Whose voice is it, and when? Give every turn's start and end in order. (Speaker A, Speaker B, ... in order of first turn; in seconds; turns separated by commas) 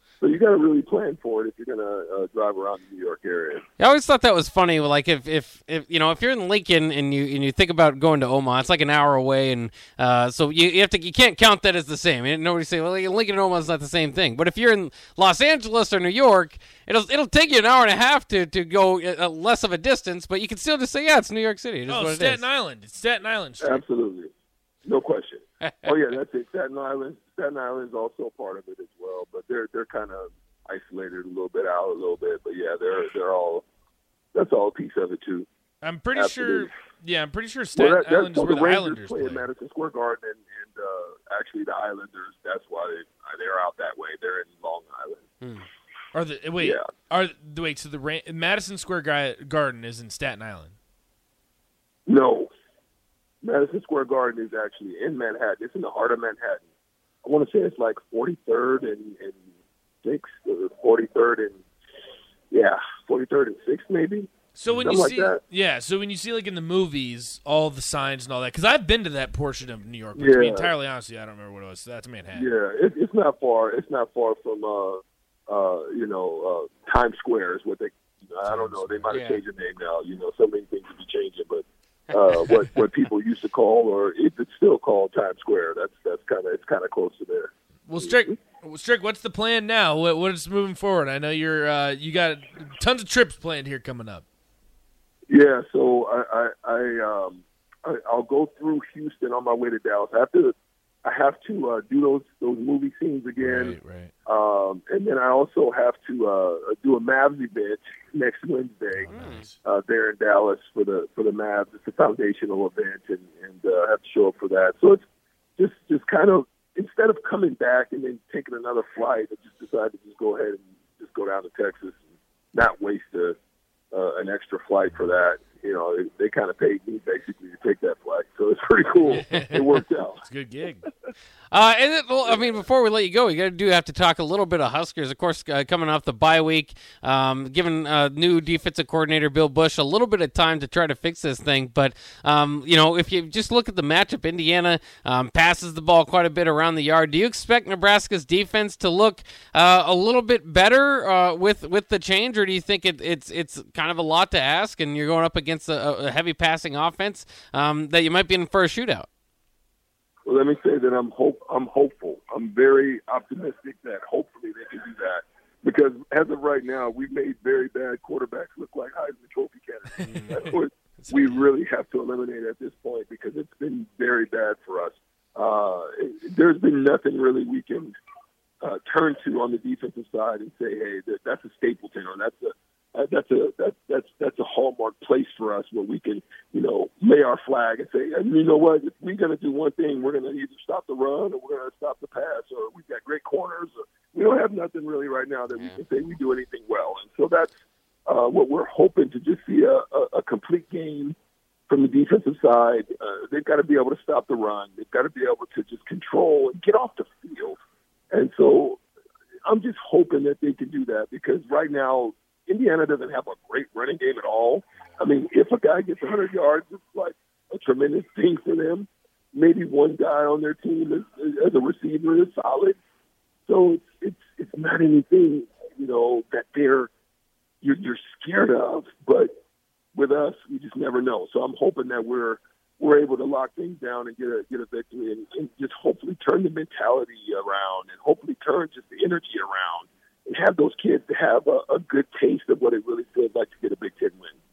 Speaker A: 0.2-3.6, Speaker B: 3.8-22.4, Speaker C: 21.9-23.8, Speaker A: 23.6-24.3, Speaker A: 24.8-33.6, Speaker B: 25.6-25.9, Speaker A: 34.3-35.5, Speaker C: 35.8-39.5, Speaker A: 36.1-36.7, Speaker A: 37.7-45.2, Speaker C: 46.1-50.7, Speaker A: 46.6-46.9, Speaker A: 52.1-52.5, Speaker A: 53.4-56.6, Speaker A: 57.2-59.4, Speaker A: 60.0-61.6, Speaker A: 62.5-65.4, Speaker C: 64.5-72.5, Speaker A: 70.1-70.7, Speaker A: 72.3-88.3, Speaker C: 78.4-79.2, Speaker B: 79.1-79.4, Speaker B: 82.1-82.6, Speaker C: 87.9-94.2, Speaker A: 95.3-115.0, Speaker C: 103.4-104.1, Speaker C: 108.9-109.5, Speaker B: 109.1-109.5, Speaker A: 115.6-122.0, Speaker A: 122.5-123.4, Speaker A: 123.9-130.2, Speaker C: 129.1-129.6, Speaker C: 130.2-130.9, Speaker B: 131.5-159.1, Speaker A: 132.3-132.5, Speaker A: 160.2-177.9, Speaker C: 170.0-171.5, Speaker A: 178.6-197.5, Speaker B: 195.5-195.8, Speaker A: 198.1-201.1, Speaker A: 201.7-207.6, Speaker A: 208.1-208.8, Speaker A: 209.4-222.8, Speaker A: 223.5-226.9, Speaker A: 227.6-229.3, Speaker A: 229.9-244.4